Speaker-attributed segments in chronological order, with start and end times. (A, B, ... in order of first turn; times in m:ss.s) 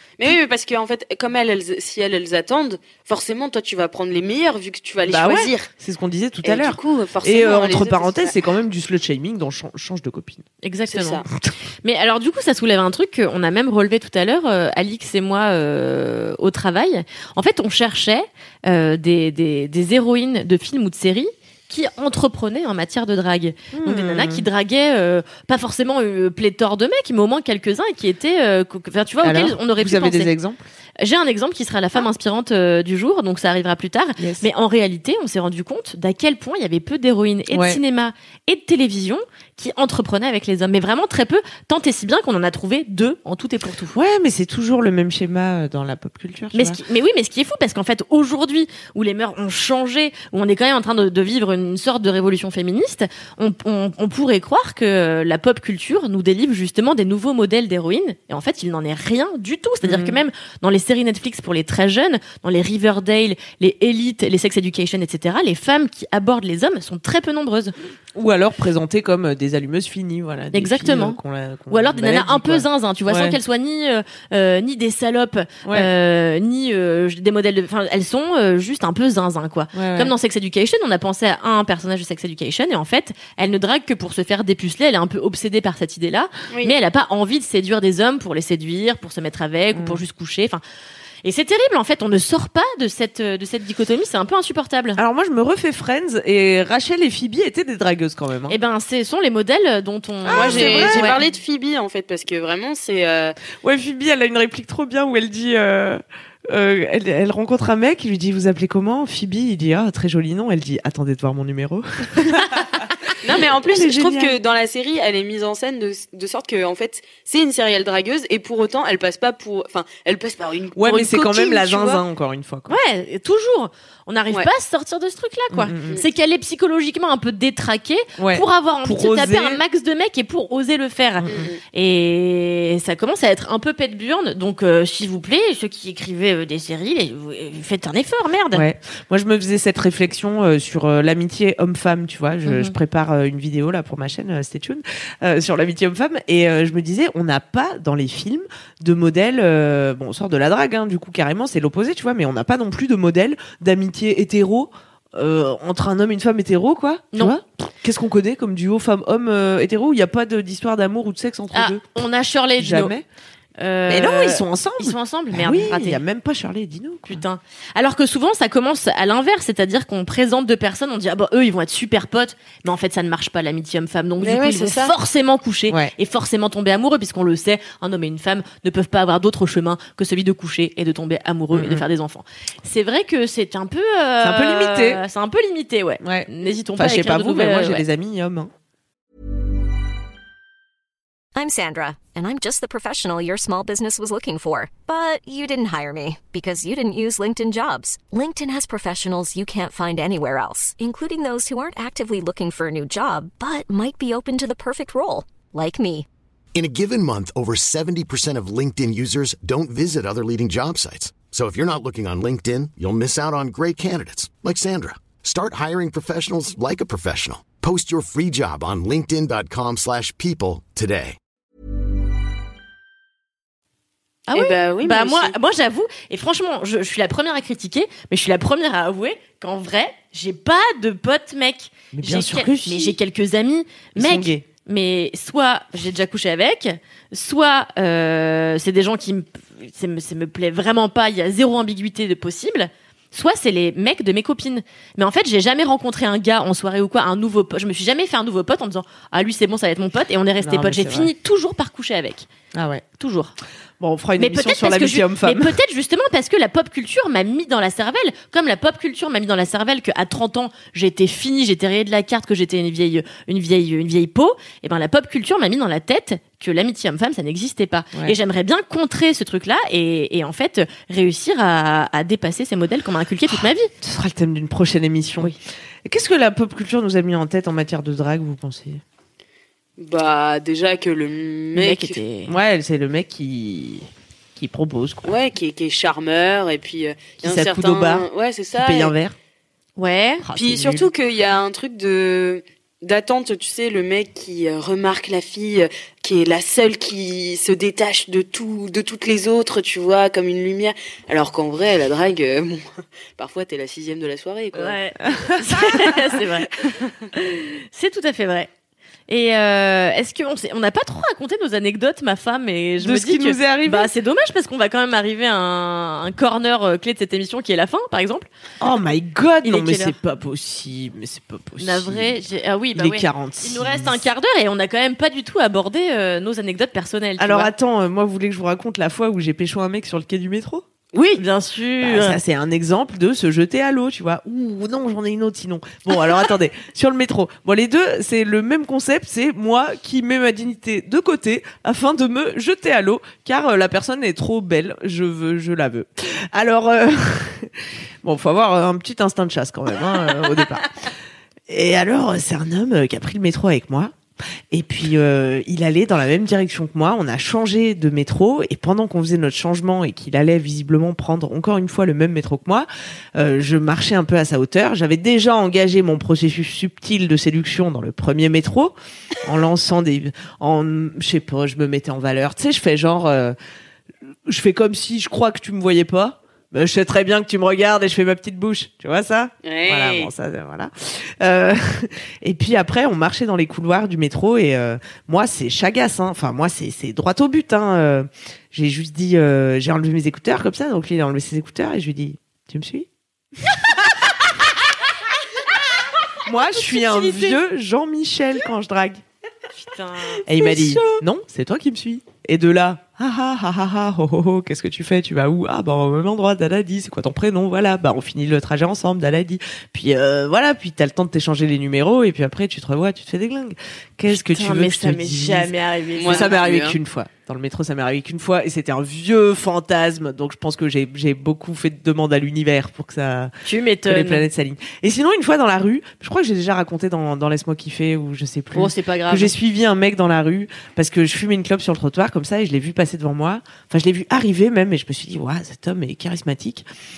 0:00.2-0:05.7 A
0:05.1-0:10.4 B
0:06.4-0:08.4 A
0:10.6-0:11.2 C
0:10.9-0:11.2 A
0:11.8-0:30.3 C
0:23.7-0:24.5 B
0:29.2-0:30.6 B
0:31.0-0:44.0 C
0:34.2-0:34.4 B
0:37.5-0:37.8 B
0:43.9-0:46.8 B
0:46.5-1:07.7 C
0:59.8-1:00.2 B
1:08.1-1:13.4 B
1:10.5-1:11.2 C
1:11.7-1:30.6 C
1:15.6-1:15.9 B
1:19.7-1:20.1 B
1:29.7-1:30.0 B
1:31.2-1:35.0 C
1:35.0-1:38.6 B
1:38.5-1:41.2 C
1:40.2-1:41.2 B
1:40.3-1:43.4 A
1:43.6-1:54.3 B
1:53.2-2:02.0 A
2:00.8-2:02.8 B
2:02.7-2:18.6 C
2:05.5-2:06.0 B
2:08.2-2:09.6 B
2:11.2-2:11.5 B
2:11.3-2:11.6 A
2:18.5-2:41.8 B
2:22.4-2:22.7 C
2:41.5-2:42.9 C
2:42.6-2:43.0 B
2:43.6-2:46.0 C
2:43.9-2:47.2 B
2:47.1-3:07.8 C
2:54.2-2:54.9 A
3:01.5-3:01.8 B
3:04.2-3:05.0 B
3:06.0-3:08.5 B
3:11.3-3:26.1 D
3:26.5-3:41.2 E
3:44.3-4:12.3 C
3:44.3-3:45.3 A
3:51.9-3:53.0 B
3:54.0-3:54.4 B
4:10.4-4:11.1 B
4:12.5-4:12.8 B
4:13.0-4:13.3 C
4:13.8-4:15.5 B
4:14.2-4:33.7 C
4:33.8-4:35.3 B
4:35.8-4:38.8 B
4:39.8-4:42.0 A
4:41.5-4:42.3 C
4:42.2-4:45.1 B
4:45.0-4:48.9 A
4:47.2-4:49.1 B
4:49.8-4:50.2 C
4:50.2-4:50.9 B
4:50.3-5:04.8 A
5:04.5-5:08.5 C
5:05.0-5:06.1 B
5:09.1-5:18.3 C
5:12.8-5:13.9 B
5:18.6-5:22.1 B
5:19.4-5:19.9 C
5:21.6-5:27.5 C
5:22.8-5:24.0 B
5:27.2-5:30.6 B
5:30.9-5:32.2 C
5:31.8-5:50.7 B
5:51.5-5:53.9 B
5:54.5-6:13.4 B
6:14.3-6:32.9 B
6:19.4-6:20.1 A
6:36.2-6:39.0 B
6:36.5-6:37.4 C
6:39.5-6:41.0 C
6:40.3-6:55.5 B
6:54.1-6:56.4 C
6:56.0-6:56.8 A
6:56.0-7:03.3 B
7:03.4-7:04.2 C
7:03.9-7:16.6 B
7:08.5-7:09.3 C